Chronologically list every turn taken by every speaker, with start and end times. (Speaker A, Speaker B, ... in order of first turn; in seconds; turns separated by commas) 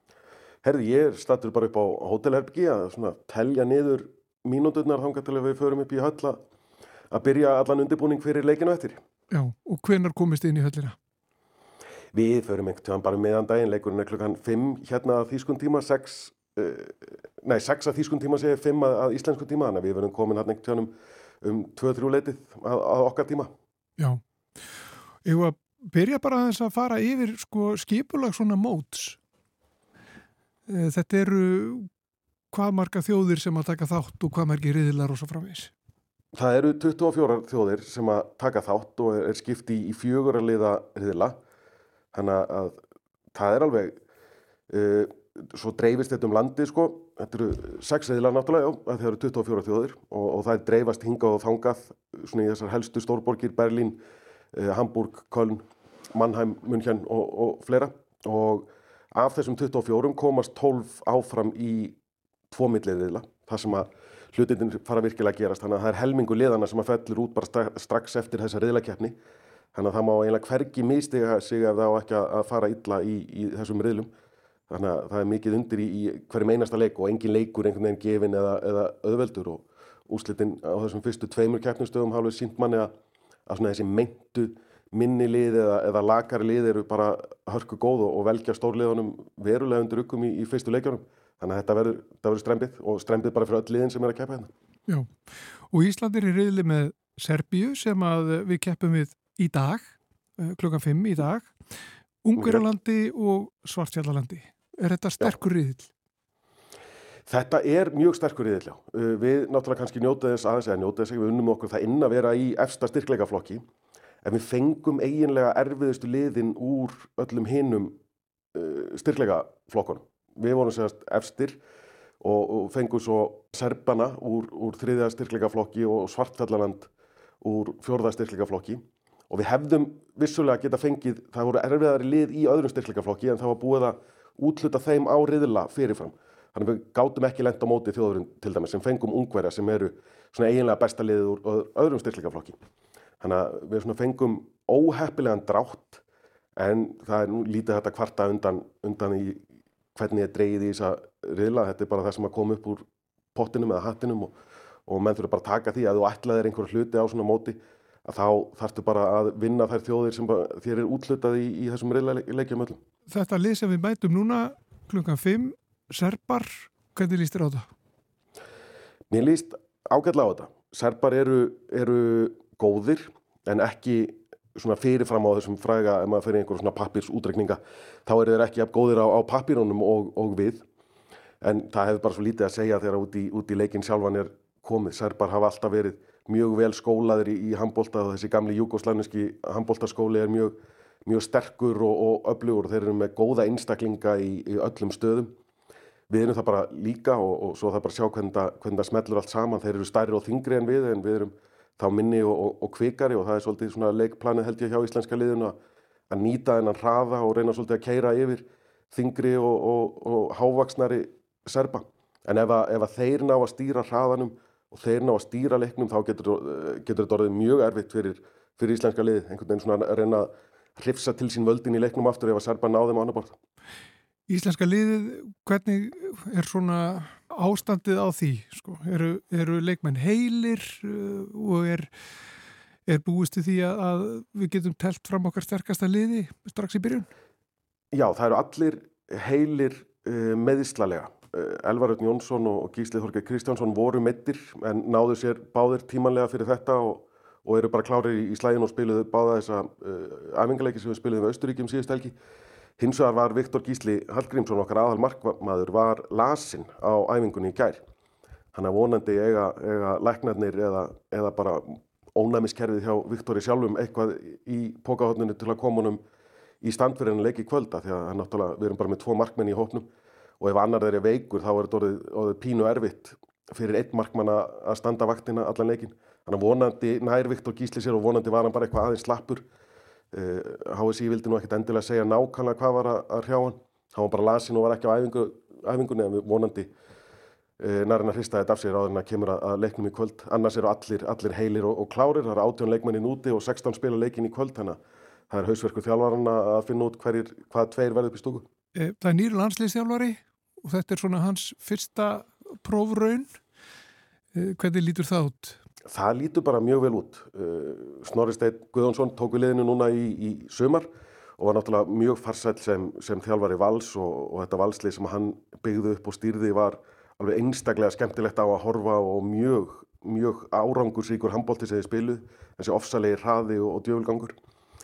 Speaker A: 0.6-6.4, Speaker A: 7.1-9.0, Speaker B: 9.3-10.9, Speaker A: 12.1-23.5, Speaker B: 25.2-29.2, Speaker B: 30.7-31.9, Speaker B: 32.5-35.7, Speaker A: 36.3-41.4, Speaker A: 42.1-42.8, Speaker A: 43.3-44.0, Speaker A: 44.7-54.0, Speaker A: 54.5-62.0, Speaker A: 62.5-69.2, Speaker A: 69.7-74.1, Speaker A: 74.7-82.9, Speaker A: 83.5-94.5, Speaker B: 94.9-101.5, Speaker B: 102.2-105.9, Speaker A: 102.4-102.6, Speaker A: 107.3-113.6, Speaker A: 114.2-118.0, Speaker A: 118.5-121.6, Speaker A: 122.2-126.9, Speaker A: 127.4-142.6, Speaker A: 143.2-146.0, Speaker A: 146.6-149.4, Speaker A: 149.9-152.8, Speaker A: 153.3-154.3, Speaker A: 154.9-162.8, Speaker B: 163.1-167.7, Speaker A: 169.1-180.6, Speaker A: 181.4-195.3, Speaker A: 196.1-205.6, Speaker A: 206.1-223.3, Speaker B: 224.3-231.9, Speaker B: 232.8-237.1, Speaker A: 237.9-252.1, Speaker A: 252.8-257.8, Speaker A: 258.5-266.0, Speaker A: 266.6-269.9, Speaker A: 270.4-279.4, Speaker A: 280.1-286.7, Speaker A: 287.6-294.8, Speaker A: 295.3-298.4, Speaker B: 298.7-303.4, Speaker B: 304.3-305.6, Speaker A: 305.9-324.3